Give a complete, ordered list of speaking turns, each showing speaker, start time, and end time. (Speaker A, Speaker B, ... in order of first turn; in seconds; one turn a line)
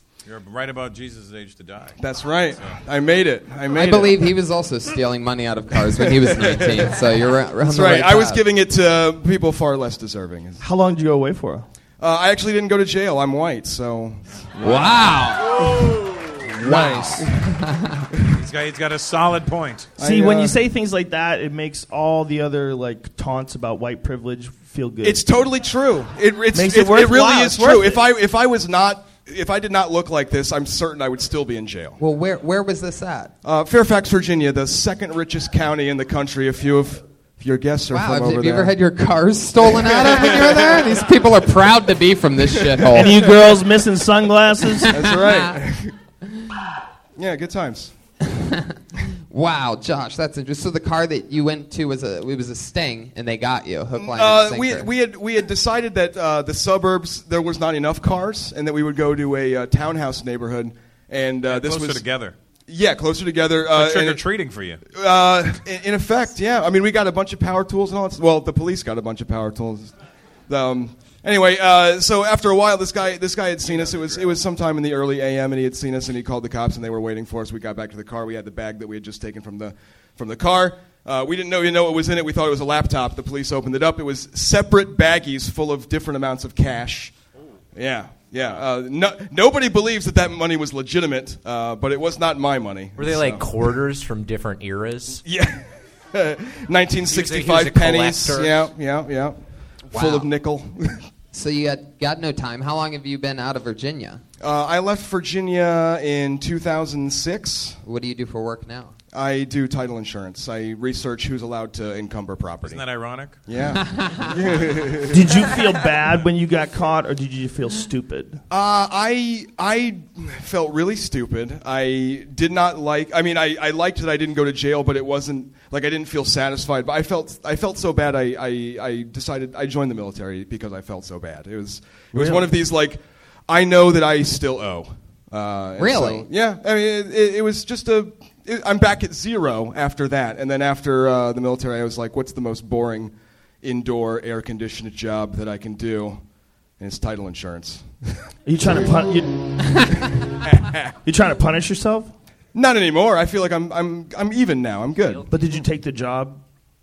Speaker A: 0.2-2.0
Speaker B: 2.0-4.3
Speaker A: 2.5-2.8
Speaker C: 3.7-8.4
Speaker B: 5.9-7.0
Speaker B: 7.6-10.6
Speaker D: 10.6-11.7
Speaker B: 12.0-14.8
Speaker C: 14.6-15.6
Speaker C: 16.6-18.0
Speaker D: 16.6-17.2
Speaker A: 18.3-19.9
Speaker B: 20.0-20.6
Speaker D: 20.0-25.2
Speaker B: 25.0-32.0
Speaker D: 26.5-28.0
Speaker C: 32.0-33.3
Speaker B: 33.4-38.7
Speaker C: 37.9-43.2
Speaker B: 39.6-41.0
Speaker B: 42.8-43.3
Speaker D: 42.9-44.9
Speaker B: 44.9-45.9
Speaker C: 44.9-45.6
Speaker B: 47.1-47.9
Speaker C: 48.3-48.7
Speaker C: 49.3-54.9
Speaker B: 54.0-62.0
Speaker A: 61.5-62.4
Speaker B: 62.7-64.2
Speaker A: 63.7-64.8
Speaker B: 64.9-69.9
Speaker B: 70.5-87.2
Speaker B: 87.7-93.5
Speaker E: 93.0-95.2
Speaker B: 95.2-101.0
Speaker E: 97.0-98.7
Speaker C: 99.9-100.2
Speaker C: 101.3-104.2
Speaker B: 104.4-107.8
Speaker C: 107.8-108.9
Speaker B: 109.1-112.8
Speaker A: 112.6-113.4
Speaker B: 113.5-115.6
Speaker C: 113.7-114.3
Speaker D: 115.1-118.4
Speaker B: 118.5-146.2
Speaker C: 135.8-136.3
Speaker B: 146.8-148.0
Speaker D: 148.4-149.5
Speaker B: 150.4-150.9
Speaker D: 151.0-152.1
Speaker B: 152.5-155.2
Speaker E: 155.0-155.3
Speaker D: 155.3-156.4